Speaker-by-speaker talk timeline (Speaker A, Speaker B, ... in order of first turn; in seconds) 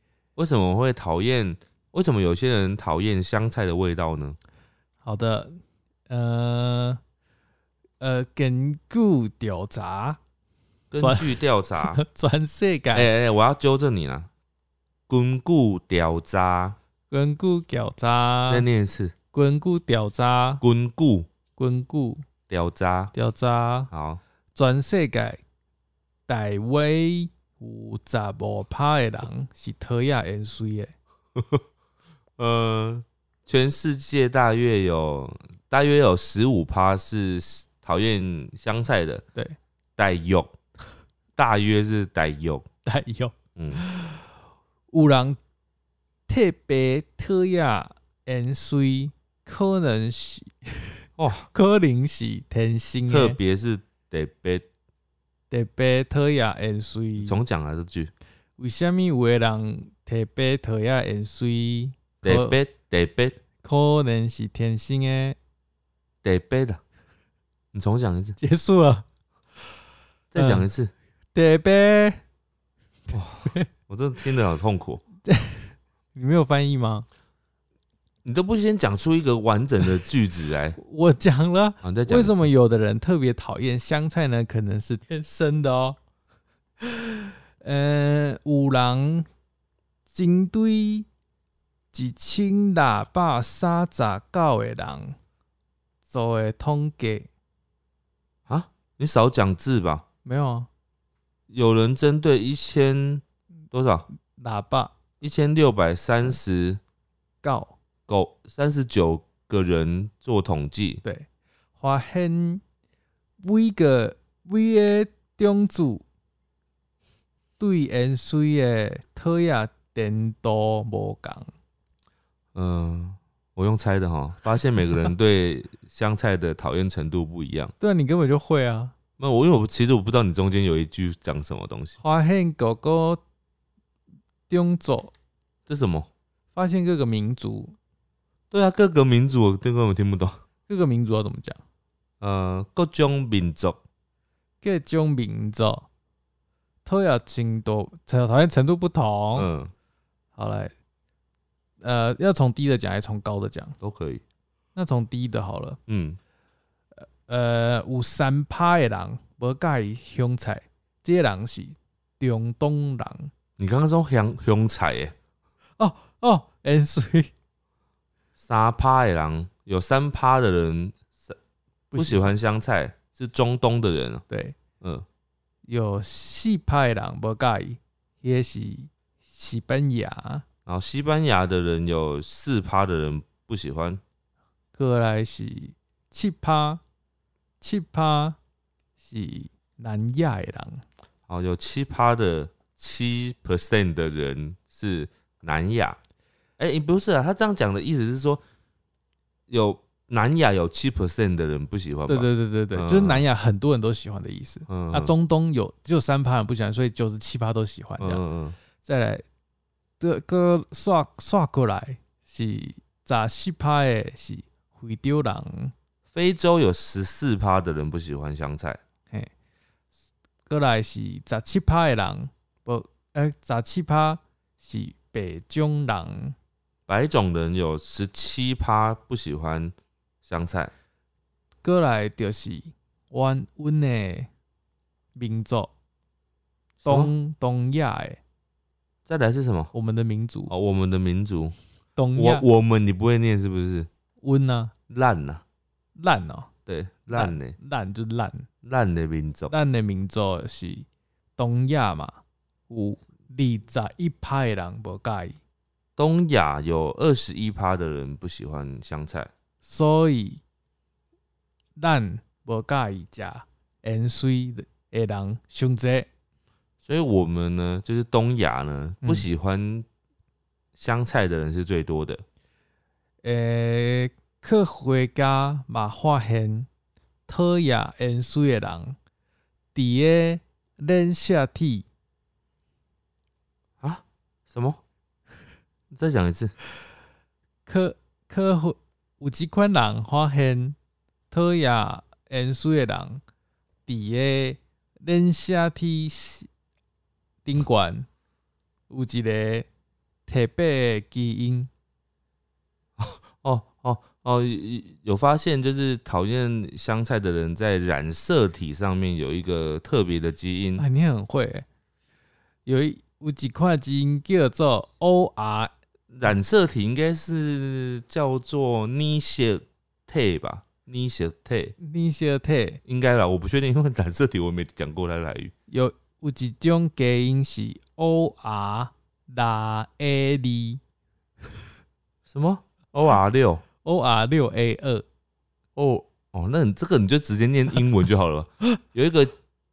Speaker A: 0.3-4.4, 10.9-12.0, 12.9-14.3, 15.1-16.8, 18.5-19.1, 20.6-21.3, 22.5-23.1, 23.9-24.2, 31.4-31.6, 32.4-39.2, 40.0-40.5, 41.4-42.6, 43.5-43.8, 51.2-51.5, 53.1-54.6, 57.2-58.1, 62.2-63.4, 66.2-66.8, 67.7-68.4, 70.3-70.9, 73.1-75.0, 78.2-80.8, 81.8-82.5, 98.5-100.0, 101.5-104.0, 105.2-106.8, 108.1-111.0, 122.5-127.7, 129.2-132.0, 135.7-136.1, 138.5-140.4, 142.2-143.8, 149.3-149.7, 153.8-154.2, 155.9-156.2, 163.6-165.1, 168.4-171.4, 171.9-174.2, 180.7-184.0, 191.3-196.0, 196.6-198.4, 199.5-203.2, 204.7-205.1, 208.0-208.6, 216.1-218.8, 226.9-230.7, 236.8-237.1, 239.1-239.7, 240.5-241.6, 242.2-243.9, 244.9-245.4, 246.7-247.5, 248.6-249.5, 256.0-259.3, 266.8-269.9, 270.8-272.2, 283.8-284.8, 285.9-286.5, 303.0-310.8, 316.1-321.7, 322.9-325.5, 332.2-333.6, 335.8-339.3
Speaker B: 5.0-7.0, 8.0-10.2, 11.0-13.1, 17.1-18.7, 19.3-20.6, 21.6-22.2, 23.1-23.9, 24.5-25.4, 26.3-30.9, 42.8-44.2, 44.9-45.4, 46.3-50.9, 51.5-53.4, 55.5-57.4, 58.6-62.6, 63.6-65.4, 68.4-69.0, 70.3-70.7, 71.3-72.2, 75.2-77.1, 80.8-86.0, 86.8-89.3, 90.1-91.1, 91.9-95.2, 96.1-97.3, 100.2-100.7, 104.4-104.9, 107.4-107.7, 111.8-112.6, 113.4-116.0, 117.6-121.5, 127.8-128.9, 132.0-133.2, 134.5-135.1, 136.5-137.8, 140.7-141.6, 144.6-145.9, 146.8-149.5, 150.3-150.7, 151.8-153.8, 154.7-155.8, 157.0-163.3, 165.8-167.3, 171.9-172.3, 174.3-174.6, 175.7-180.4, 184.7-186.8, 187.6-188.4, 189.0-190.8, 202.1-208.2, 208.8-209.2, 210.0-215.7, 220.5-226.3, 231.6-234.3, 235.1-235.7, 236.8-238.2, 239.7-240.5, 241.9-242.4, 244.2-244.7, 246.0-246.5, 247.1-248.5, 249.5-255.4, 259.6-260.4, 261.8-266.1, 269.0-269.3, 273.2-276.7, 277.3-279.0, 279.7-281.9, 287.6-290.8, 291.3-293.2, 293.9-296.5, 297.4-298.1, 298.9-299.7, 300.3-301.7, 310.8-311.6, 312.6-315.7, 321.8-322.8, 325.7-330.8, 333.8-335.0